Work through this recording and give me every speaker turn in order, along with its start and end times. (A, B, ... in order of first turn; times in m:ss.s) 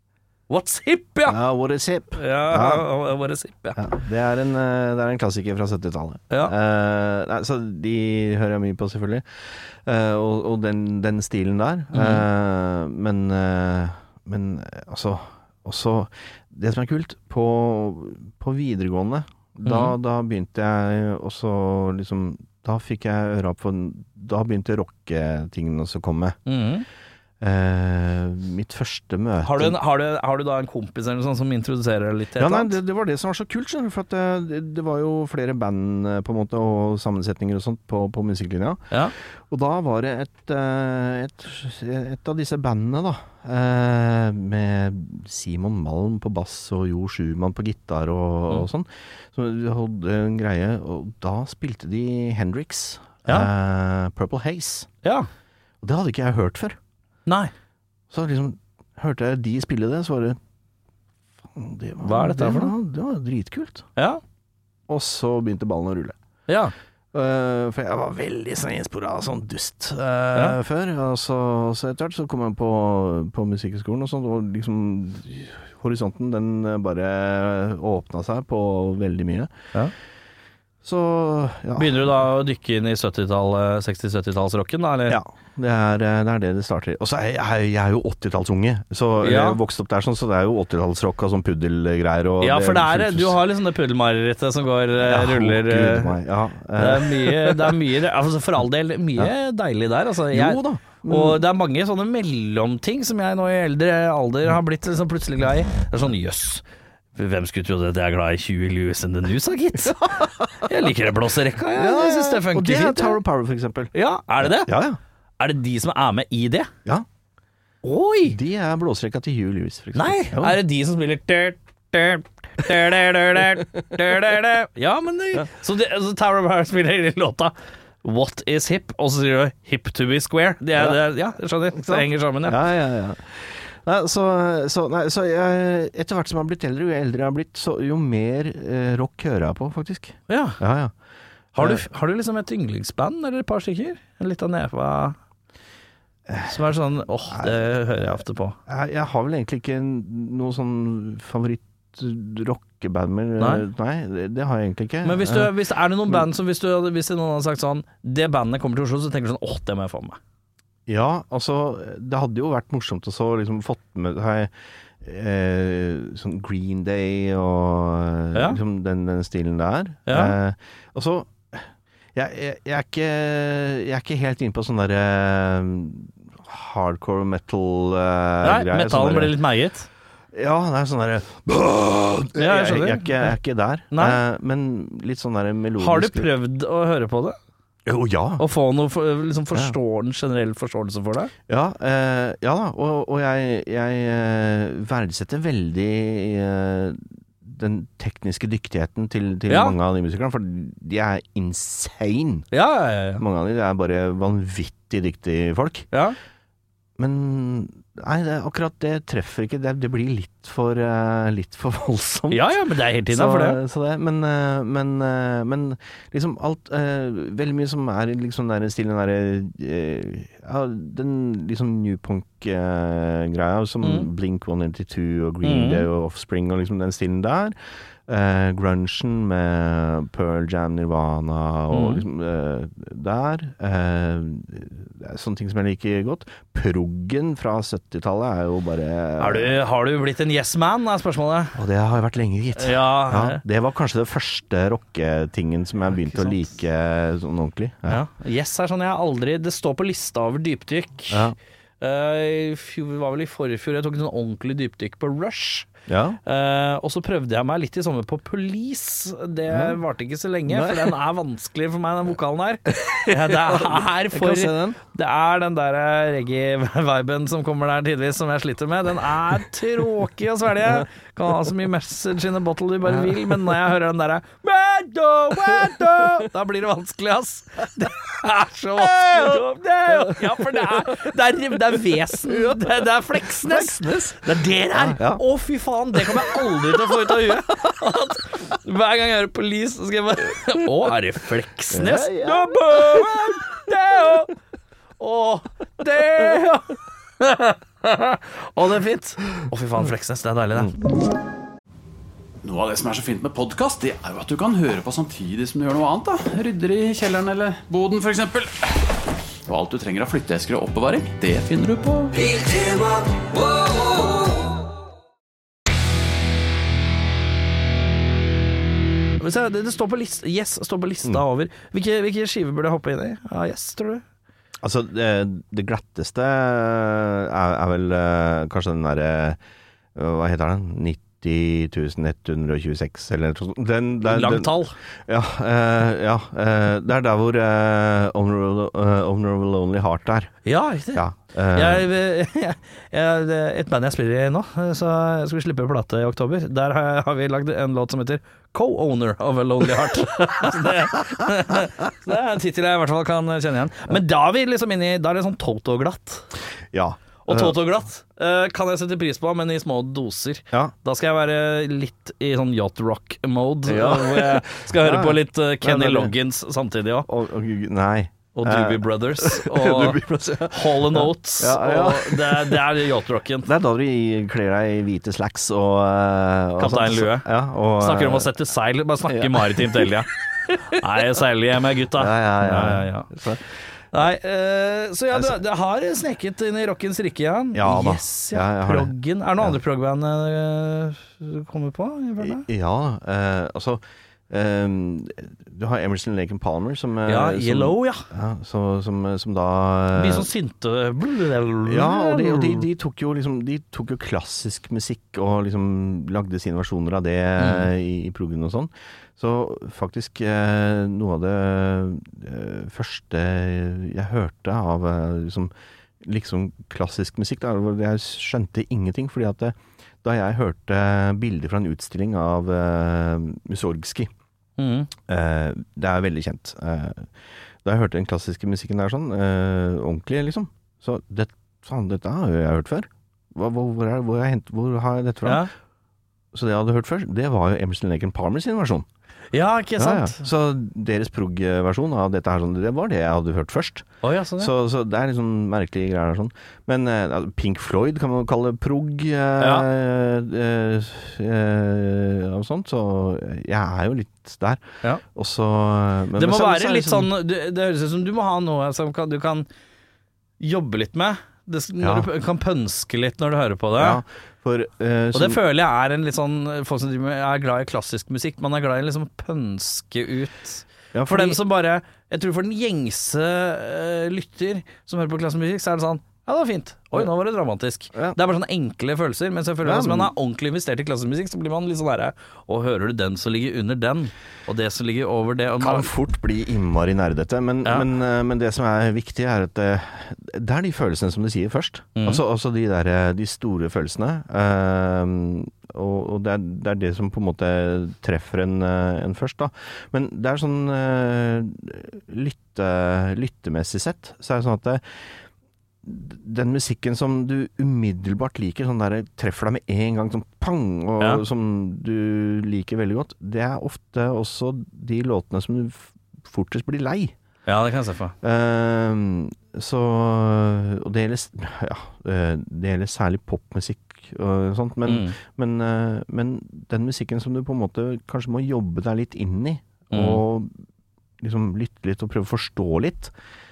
0:00.5-0:01.4 A
0:01.2-0:02.9 B
0:02.2-0:03.9 A
0:03.8-0:26.4 B
0:11.9-0:12.2 A
0:19.6-0:19.9 A
0:26.4-0:26.8 A
0:27.4-0:29.8 B
0:29.4-0:32.8 A
0:32.4-0:38.9 B
0:39.5-0:54.9 B
0:55.0-0:55.3 A
0:55.8-0:56.8 B
0:57.3-0:57.5 A
0:58.1-1:00.4 B
1:01.5-1:03.9 B
1:02.0-1:02.7 A
1:04.0-1:04.2 A
1:04.9-1:06.2 B
1:06.5-1:06.7 A
1:07.1-1:19.5 B
1:20.8-1:22.1 B
1:21.8-1:25.2 A
1:25.1-1:33.4 B
1:29.2-1:29.6 A
1:32.4-1:36.2 A
1:35.0-1:37.8 B
1:36.8-1:46.6 A
1:40.3-1:41.4 B
1:47.1-1:53.2 A
1:50.2-1:50.7 B
1:51.7-1:55.0 B
1:53.9-1:54.7 A
1:55.4-1:56.7 A
1:57.8-1:58.4 A
1:58.2-2:00.6 B
1:59.9-2:12.6 A
2:10.8-2:11.0 B
2:11.7-2:20.9 B
2:20.3-2:20.6 A
2:21.5-2:25.2 A
2:21.6-2:21.8 B
2:26.3-2:26.6 B
2:26.4-2:28.6 A
2:27.3-2:35.5 B
2:33.4-2:33.6 A
2:35.0-2:40.2 A
2:40.9-2:59.4 B
2:48.3-2:48.6 A
2:50.1-2:50.3 A
2:58.4-2:59.9 A
3:00.3-3:06.3 B
3:02.3-3:03.3 A
3:03.9-3:04.2 A
3:05.8-3:07.4 A
3:07.8-3:08.4 B
3:08.4-3:11.3 A
3:11.5-3:22.5 B
3:19.5-3:19.8 A
3:22.5-3:23.2 A
3:23.2-3:25.9 B
3:25.9-3:26.2 A
3:27.0-3:47.6 B
3:32.3-3:33.6 A
3:43.8-3:44.1 A
3:45.4-3:45.8 A
3:48.1-3:59.6 B
3:51.7-3:52.0 A
3:59.2-4:01.6 A
4:01.5-4:08.0 B
4:02.6-4:03.4 A
4:07.9-4:11.3 A
4:11.1-4:11.4 B
4:11.8-4:15.7 A
4:15.9-4:16.2 B
4:16.2-4:54.3 A
4:19.5-4:19.8 B
4:20.5-4:21.0 B
4:22.7-4:24.8 B
4:32.9-4:33.5 B
4:38.8-4:40.8 B
4:42.3-4:45.2 B
4:45.9-4:47.4 B
4:51.7-4:53.4 B
4:55.0-5:00.8 A
5:02.4-5:08.8 C
5:09.4-5:14.2 C
5:19.2-5:24.0 A
5:24.6-5:29.4 B
5:29.9-5:40.3 B
5:34.0-5:34.8 A
5:40.4-5:56.2 A
5:40.9-5:41.9 B
5:56.7-5:57.6 B
5:57.2-6:07.1 A
6:03.7-6:06.1 B
6:07.0-6:12.7 B
6:08.3-6:13.5 A
6:13.4-6:18.3 B
6:16.6-6:23.1 A
6:19.1-6:20.0 B
6:21.9-6:23.4 B
6:23.9-6:32.4 A
6:27.5-6:29.6 B
6:32.2-6:40.3 B
6:37.1-6:38.1 A
6:39.9-6:42.6 A
6:41.6-7:04.1 B
6:47.4-6:47.7 A
7:04.6-7:04.9 A
7:05.1-7:07.1 B
7:07.6-7:15.5 B
7:15.2-7:15.5 A
7:16.3-7:18.8 B
7:19.3-7:20.3 A
7:19.8-7:23.8 B
7:24.0-7:24.5 A
7:24.4-7:37.1 B
7:29.4-7:29.7 A
7:36.2-7:39.5 A
7:40.4-7:44.0 A
7:41.8-7:42.1 B
7:43.8-7:45.4 B
7:45.1-8:05.9 A
7:50.9-7:51.4 B
7:59.6-8:00.1 B
8:05.6-8:25.0 B
8:12.0-8:12.2 A
8:25.8-8:37.1 B
8:37.4-8:38.1 A
8:38.2-8:50.5 B
8:44.8-8:45.2 A
8:49.9-8:50.2 A
8:51.2-8:53.1 B